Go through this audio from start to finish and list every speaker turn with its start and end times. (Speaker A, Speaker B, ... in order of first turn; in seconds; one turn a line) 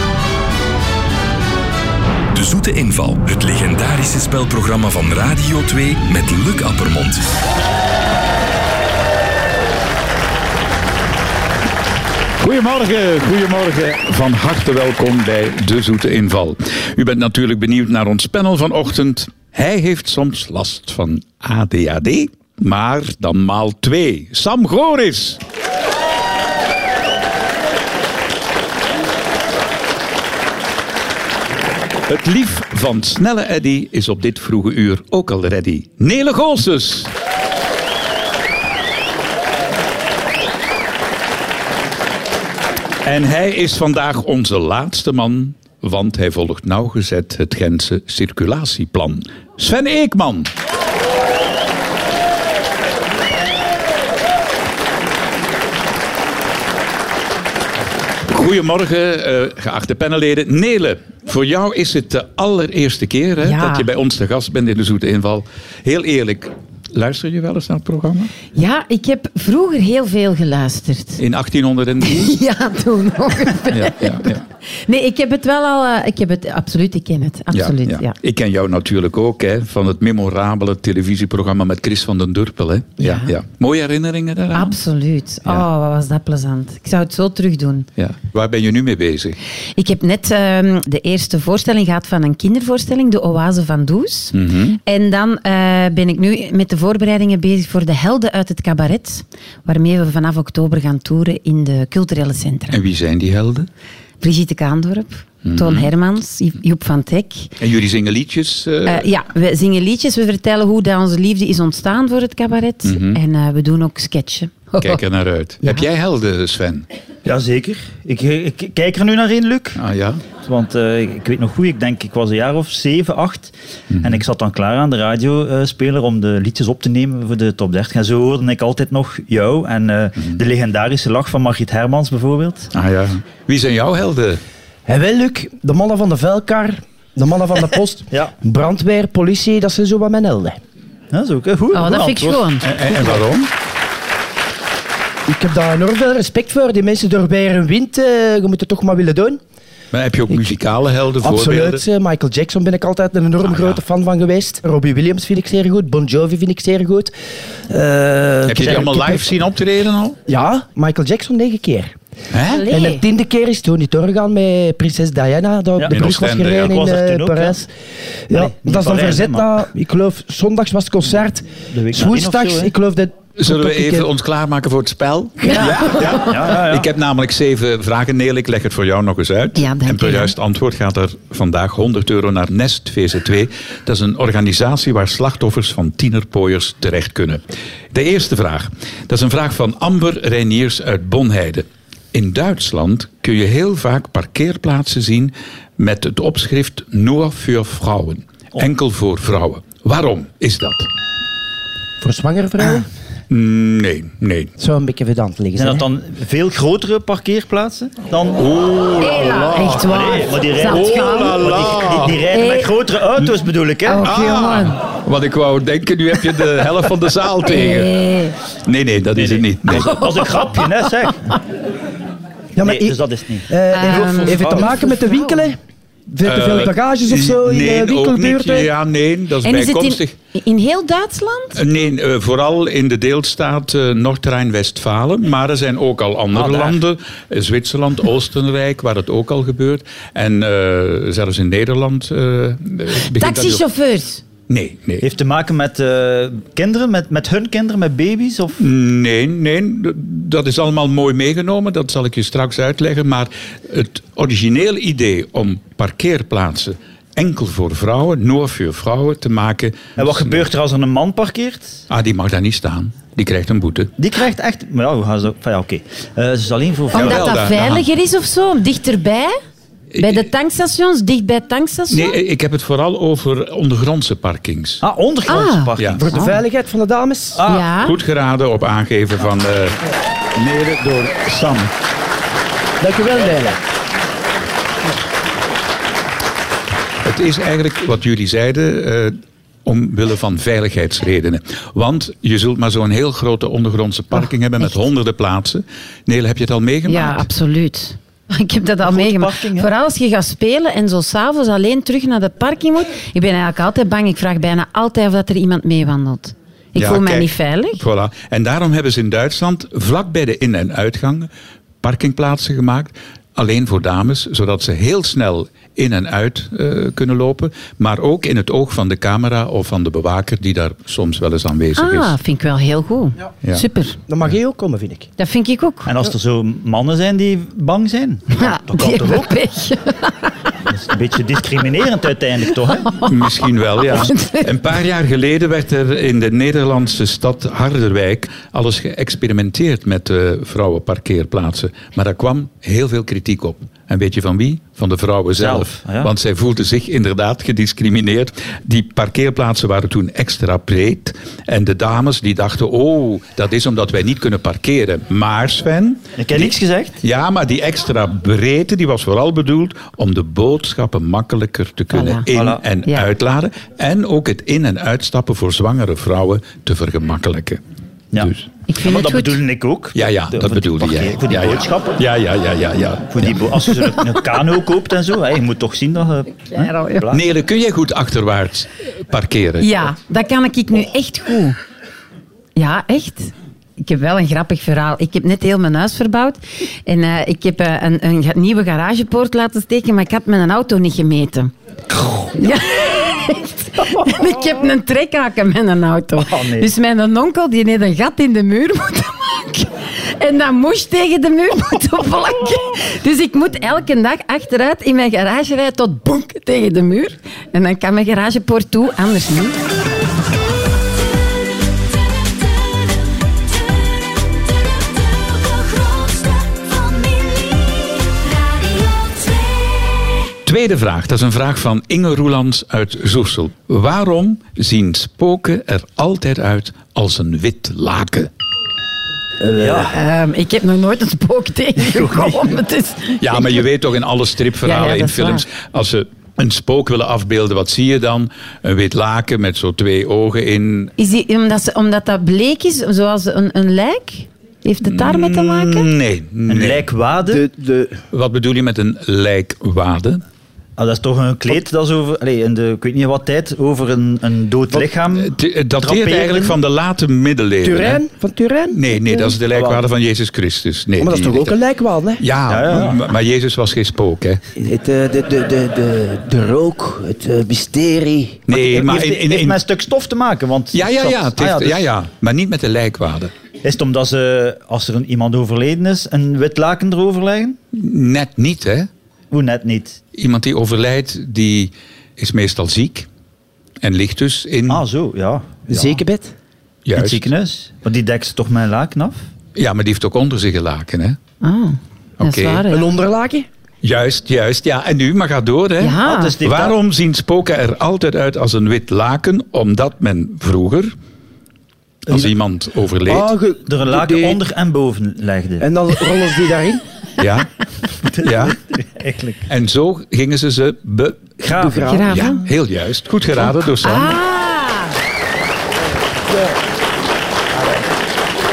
Speaker A: 2.3-7.2
Speaker B: 12.4-25.4
Speaker B: 32.1-37.1
Speaker B: 43.0-50.5
Speaker B: 58.3-68.3
Speaker C: 63.4-63.9
Speaker C: 68.5-71.2
Speaker B: 71.2-72.3
Speaker C: 72.0-78.1
Speaker B: 73.7-74.4
Speaker B: 77.5-84.8
Speaker C: 83.0-83.3
Speaker C: 84.5-87.9
Speaker B: 88.0-89.4
Speaker C: 89.8-102.8
Speaker B: 94.3-94.8
Speaker B: 102.7-103.7
Speaker C: 104.2-107.5
Speaker B: 105.4-105.9
Speaker B: 107.6-109.1
Speaker C: 108.9-115.0
Speaker B: 112.8-113.2
Speaker B: 114.8-116.9
Speaker D: 117.2-119.8
Speaker B: 119.8-120.2
Speaker D: 120.4-132.7
Speaker B: 123.9-124.2
Speaker B: 132.7-134.4
Speaker E: 134.9-140.6
Speaker D: 141.1-142.5
Speaker C: 141.7-142.9
Speaker B: 142.6-143.5
Speaker E: 145.3-149.4
Speaker B: 149.9-151.8
Speaker E: 151.2-157.1
Speaker B: 153.4-153.8
Speaker E: 157.7-159.4
Speaker B: 158.5-160.2
Speaker E: 160.3-161.9
Speaker B: 162.3-162.7
Speaker C: 162.5-163.0
Speaker E: 162.7-167.7
Speaker B: 165.9-166.8
Speaker D: 166.6-167.6
Speaker E: 168.3-174.1
Speaker D: 168.3-169.5
Speaker D: 171.7-172.7
Speaker B: 173.4-187.4
Speaker E: 175.4-175.7
Speaker C: 175.5-176.3
Speaker D: 175.9-176.9
Speaker C: 179.6-180.3
Speaker B: 187.9-200.9
Speaker E: 202.0-202.9
Speaker B: 203.3-204.5
Speaker E: 204.6-205.9
Speaker D: 205.6-208.4
Speaker B: 208.4-209.9
Speaker C: 209.0-211.5
Speaker D: 209.8-214.1
Speaker B: 210.6-212.2
Speaker C: 212.3-212.7
Speaker C: 213.9-214.8
Speaker B: 214.0-217.9
Speaker C: 217.5-218.3
Speaker B: 218.7-220.0
Speaker D: 219.2-221.3
Speaker C: 220.0-220.6
Speaker E: 222.6-225.6
Speaker D: 222.6-223.5
Speaker C: 223.7-225.5
Speaker B: 224.2-224.7
Speaker E: 226.1-228.7
Speaker B: 226.2-230.1
Speaker C: 229.4-231.6
Speaker B: 231.6-243.6
Speaker D: 236.3-236.8
Speaker C: 243.1-244.2
Speaker B: 244.5-245.1
Speaker D: 245.0-248.6
Speaker B: 248.6-260.5
Speaker D: 260.0-261.8
Speaker B: 261.9-263.9
Speaker D: 264.0-267.5
Speaker C: 266.9-269.4
Speaker B: 266.9-267.9
Speaker B: 269.9-270.3
Speaker C: 270.0-272.2
Speaker B: 271.9-274.8
Speaker D: 274.8-276.3
Speaker C: 275.3-276.4
Speaker E: 276.0-277.4
Speaker D: 277.4-277.7
Speaker C: 277.4-278.0
Speaker B: 277.8-279.8
Speaker B: 280.4-281.7
Speaker E: 282.8-283.6
Speaker B: 287.1-297.3
Speaker C: 294.1-294.8
Speaker C: 296.9-307.8
Speaker D: 298.8-299.7
Speaker B: 306.8-311.3
Speaker B: 311.8-322.1
Speaker C: 321.8-324.0
Speaker E: 324.1-325.1
Speaker C: 325.2-325.9
Speaker D: 325.9-329.4
Speaker C: 328.3-330.4
Speaker D: 330.7-332.9
Speaker C: 332.8-334.5
Speaker B: 333.0-367.6
Speaker D: 345.4-346.1
Speaker D: 356.2-357.0
Speaker C: 361.9-362.3
Speaker D: 362.3-362.6
Speaker D: 368.1-372.0
Speaker B: 368.2-368.5
Speaker C: 368.7-369.4
Speaker B: 369.9-373.7
Speaker D: 373.1-377.2
Speaker C: 376.5-377.1
Speaker B: 377.1-379.9
Speaker C: 379.6-381.6
Speaker C: 382.6-391.5
Speaker C: 392.3-409.6
Speaker D: 396.2-396.7
Speaker F: 411.0-420.2
Speaker B: 420.4-428.3
Speaker E: 429.4-429.9
Speaker D: 429.5-429.9
Speaker C: 429.9-433.6
Speaker B: 433.2-440.9
Speaker C: 434.6-435.4
Speaker C: 441.0-445.9
Speaker B: 444.9-446.9
Speaker D: 446.5-447.4
Speaker E: 447.2-448.0
Speaker B: 448.1-450.2
Speaker D: 450.8-456.6
Speaker B: 455.1-458.0
Speaker E: 457.6-459.4
Speaker B: 458.7-461.6
Speaker D: 459.5-459.8
Speaker E: 461.0-462.9
Speaker B: 462.2-464.4
Speaker D: 462.5-463.0
Speaker E: 464.6-468.4
Speaker B: 468.5-469.6
Speaker D: 468.5-471.9
Speaker B: 470.7-473.3
Speaker D: 473.6-477.6
Speaker B: 477.7-478.9
Speaker D: 479.3-480.0
Speaker B: 480.1-483.1
Speaker B: 483.8-484.9
Speaker D: 484.7-485.9
Speaker E: 485.7-486.3
Speaker B: 486.9-487.3
Speaker D: 486.9-489.2
Speaker B: 489.6-491.2
Speaker C: 491.4-492.9
Speaker B: 492.2-492.6
Speaker E: 492.7-493.5
Speaker B: 493.8-500.9
Speaker C: 495.8-496.3
Speaker D: 496.0-496.8
Speaker B: 502.1-503.3
Speaker E: 503.1-504.4
Speaker D: 503.7-505.7
Speaker E: 505.6-506.8
Speaker B: 507.2-507.5
Speaker B: 508.2-508.6
Speaker D: 508.2-509.4
Speaker B: 509.5-514.2
Speaker D: 511.4-512.3
Speaker E: 511.6-512.2
Speaker C: 511.9-512.4
Speaker C: 513.4-515.0